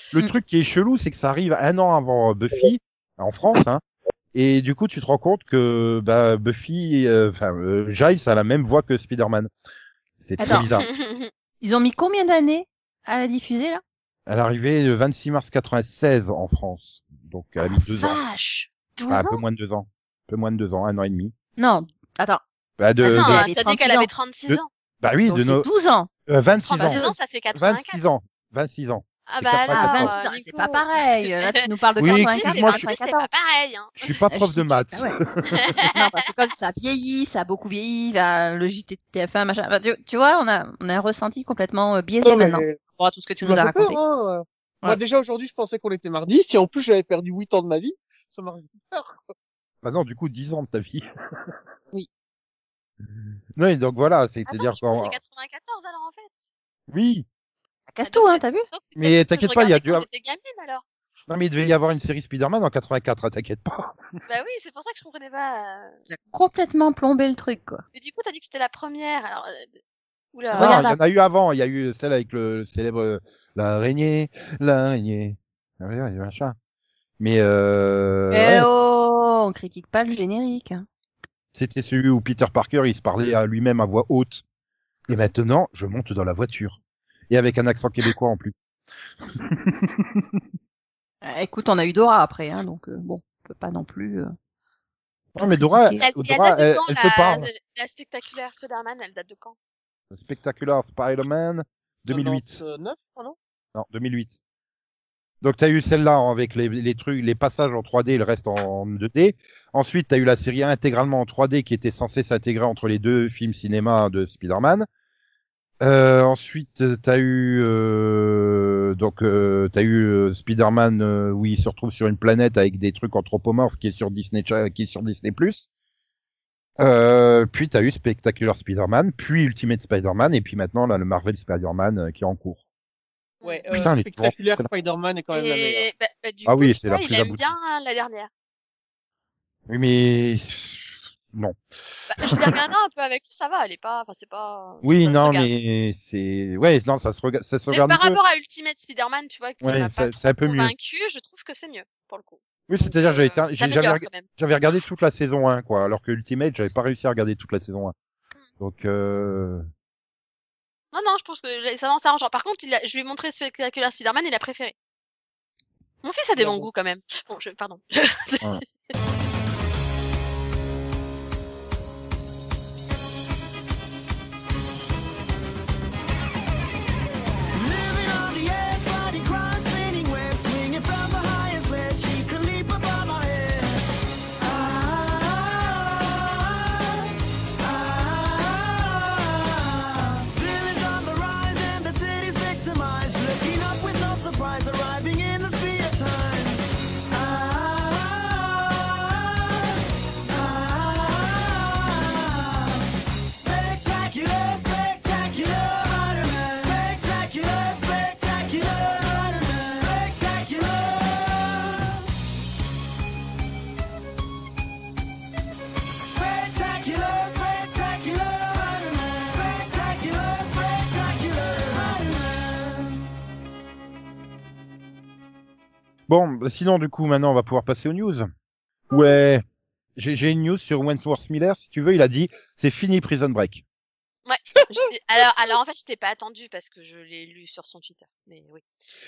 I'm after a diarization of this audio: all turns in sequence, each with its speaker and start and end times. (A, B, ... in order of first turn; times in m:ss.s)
0:00.1-0:03.8 A
0:04.3-0:09.5 A
0:10.2-0:10.9 A
0:10.4-0:10.7 B
0:10.4-0:11.3 C
0:11.6-0:13.8 B
0:14.3-0:18.2 A
0:17.6-0:19.4 B
0:19.1-0:21.3 A
0:21.6-0:22.4 B
0:22.8-0:23.4 A
0:23.0-0:24.1 B
0:23.0-0:24.7 C
0:24.5-0:25.7 A
0:25.3-0:26.1 B
0:26.3-0:30.1 A
0:26.6-0:28.0 C
0:26.8-0:27.1 B
0:29.2-0:34.1 C
0:29.7-0:33.3 B
0:32.0-0:32.9 A
0:34.0-0:35.7 A
0:34.3-0:35.2 B
0:35.6-0:36.0 C
0:35.8-0:44.0 B
0:42.2-0:42.8 D
0:43.4-0:49.3 D
0:49.8-0:51.5 A
0:53.5-0:55.2 A
0:54.5-0:56.3 C
0:56.9-0:57.2 A
0:57.9-0:58.7 B
0:58.0-1:00.8 C
0:59.0-1:00.0 A
1:01.3-1:04.0 A
1:04.3-1:06.0 C
1:06.1-1:07.8 B
1:07.9-1:09.7 C
1:10.3-1:10.9 C
1:10.5-1:16.6 A
1:10.5-1:11.0 B
1:17.2-1:18.7 A
1:18.3-1:20.8 B
1:21.5-1:24.4 A
1:25.1-1:26.8 A
1:27.3-1:28.5 A
1:29.4-1:30.3 A
1:31.2-1:34.3 B
1:35.3-1:37.5 A
1:35.4-1:36.0 B
1:36.0-1:39.6 C
1:40.1-1:42.6 A
1:42.1-1:43.4 D
1:43.7-1:44.4 A
1:45.4-1:54.9 A
1:55.8-2:05.7 A
2:06.8-2:12.6 A
2:13.4-2:13.7 C
2:13.4-2:15.9 D
2:13.7-2:14.7 A
2:15.3-2:18.3 C
2:16.4-2:17.5 A
2:19.7-2:21.6 A
2:22.1-2:25.5 C
2:22.2-2:22.6 A
2:24.8-2:28.2 A
2:27.7-2:34.3 C
2:29.6-2:30.7 A
2:32.7-2:37.9 A
2:38.6-2:39.7 A
2:40.9-2:44.7 C
2:46.0-2:48.6 C
2:46.4-2:46.7 D
2:57.5-3:03.8 E
3:04.4-3:32.1 E
3:36.1-3:43.0 E
3:46.1-3:48.3 A
3:48.9-3:49.4 A
3:50.0-3:53.6 A
3:54.2-3:58.6 C